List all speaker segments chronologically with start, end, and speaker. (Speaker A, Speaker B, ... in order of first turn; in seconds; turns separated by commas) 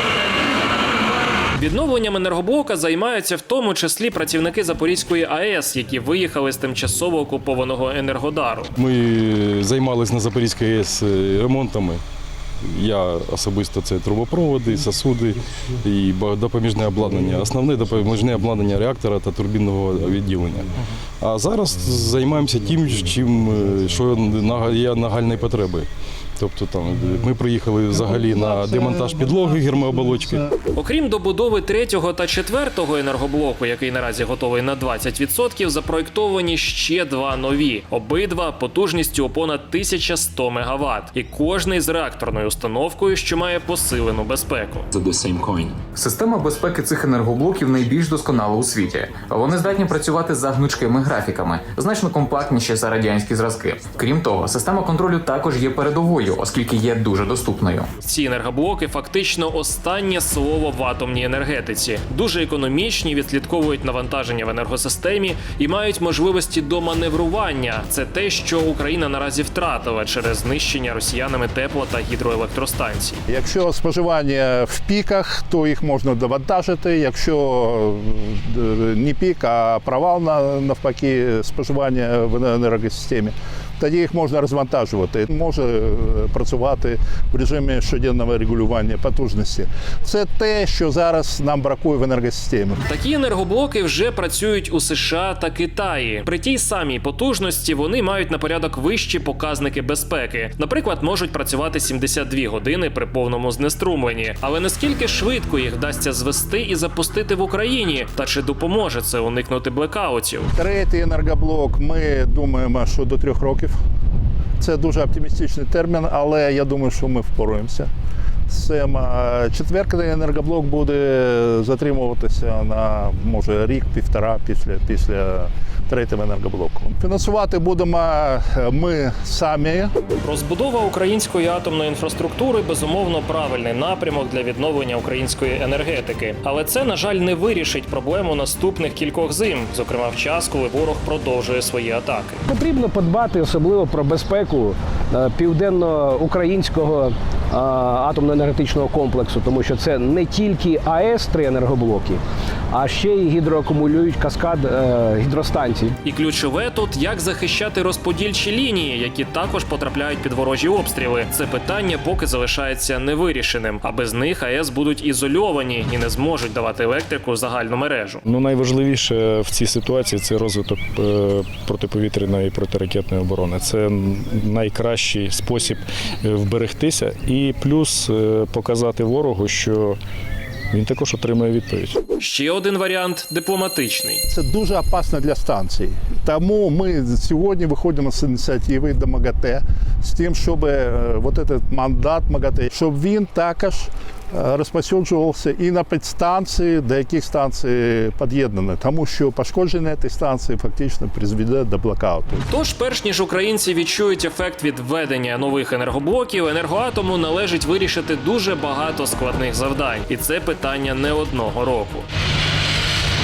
Speaker A: 1.6-8.7, Speaker B: 8.8-12.0, Speaker B: 12.6-25.9, Speaker B: 26.4-30.5, Speaker A: 30.7-44.9, Speaker C: 45.9-57.9, Speaker A: 58.0-73.2, Speaker D: 73.3-92.8, Speaker A: 92.9-110.5, Speaker D: 110.5-113.8, Speaker D: 114.6-117.9, Speaker D: 118.5-129.9, Speaker A: 130.2-142.4, Speaker E: 142.4-152.2, Speaker E: 152.7-156.0, Speaker A: 156.0-168.2, Speaker F: 168.2-180.0, Speaker F: 180.7-182.0, Speaker A: 182.2-184.2, Speaker D: 184.3-202.4, Speaker A: 202.5-212.1